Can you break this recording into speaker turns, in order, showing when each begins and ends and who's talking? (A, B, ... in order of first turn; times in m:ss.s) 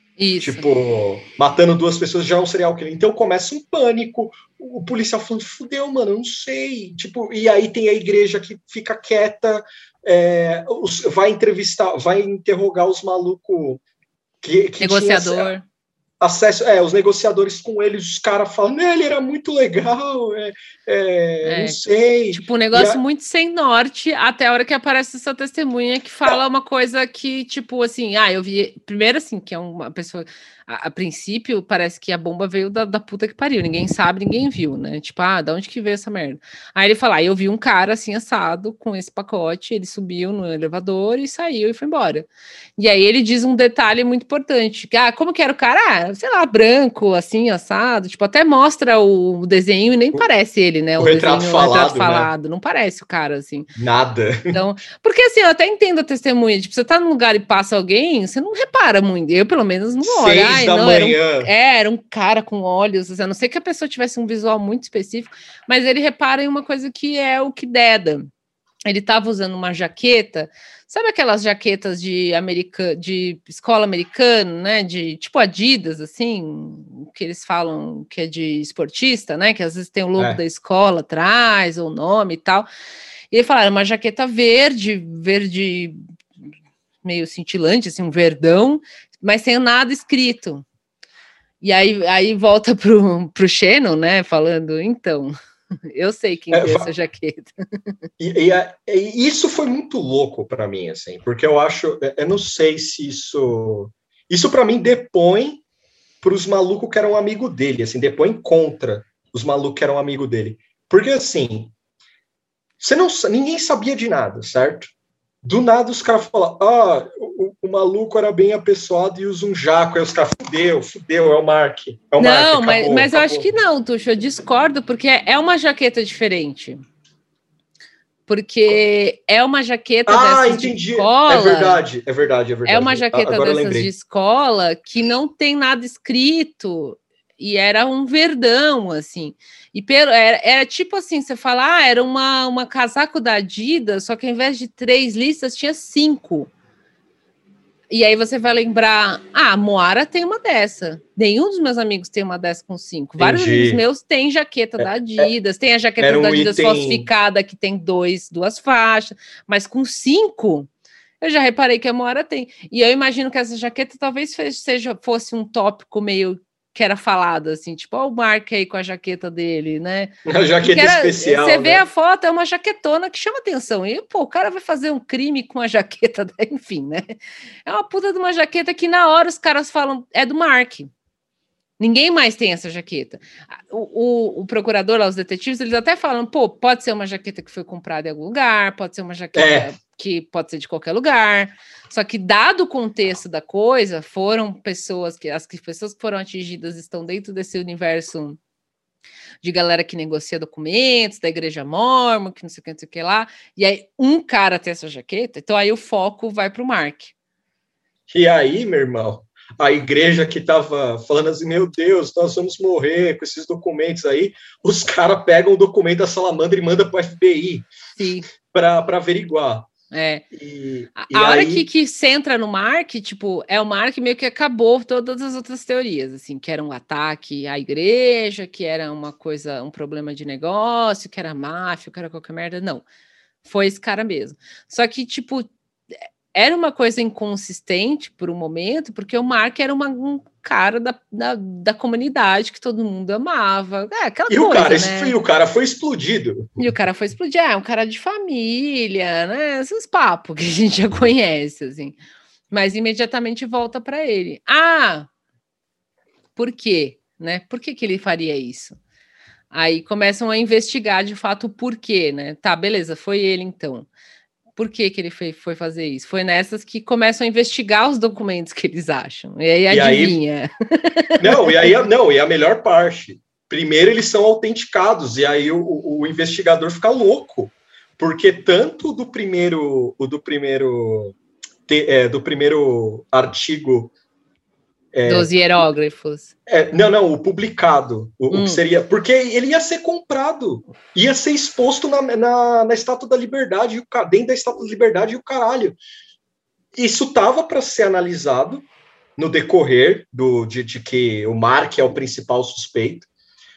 0:00.2-0:00.6 A
0:00.4-0:13.8 B
0:14.4-0:15.5 B
0:14.8-0:15.6 A
0:16.2-0:23.0 B
0:21.4-0:21.8 A
0:22.3-0:42.3 A
0:42.8-0:53.7 A
0:51.0-0:52.3 B
0:53.8-0:54.6 B
0:54.5-1:08.3 A
1:00.0-1:01.5 B
1:08.8-1:22.7 A
1:20.2-1:20.4 B
1:23.3-1:26.0 A
1:27.0-1:30.6 A
1:31.6-1:35.3 A
1:35.9-1:37.5 A
1:36.5-1:36.9 B
1:38.2-1:45.6 B
1:46.2-1:51.7 B
1:52.8-1:54.9 B
1:55.4-2:03.5 B
2:02.2-2:06.8 A
2:08.3-2:11.8 A
2:10.1-2:13.9 B
2:12.7-2:26.5 A
2:27.9-2:40.7 A
2:33.2-2:33.8 B
2:34.8-2:35.3 B
2:36.0-2:37.1 B
2:41.2-2:57.0 A
2:50.2-2:51.8 B
2:57.6-3:00.9 A
3:01.8-3:18.4 A
3:09.4-3:09.7 B
3:19.4-3:27.1 A
3:28.1-3:37.7 B
3:38.0-3:38.3 A
3:38.3-3:39.7 B
3:39.9-3:40.2 A
3:40.3-3:41.7 B
3:41.0-3:52.8 A
3:53.4-3:55.5 A
3:56.3-4:05.1 A
4:04.3-4:06.6 B
4:06.6-4:12.0 A
4:12.5-4:15.1 A
4:16.4-4:18.8 A
4:19.5-4:23.9 A
4:24.6-4:31.5 A
4:29.7-4:30.2 B
4:31.2-4:41.2 B
4:41.7-4:43.9 B
4:44.9-4:45.3 B
4:45.0-4:46.3 A
4:46.5-4:55.8 B
4:48.3-4:48.6 A
4:56.7-4:58.6 B
4:59.2-5:03.1 B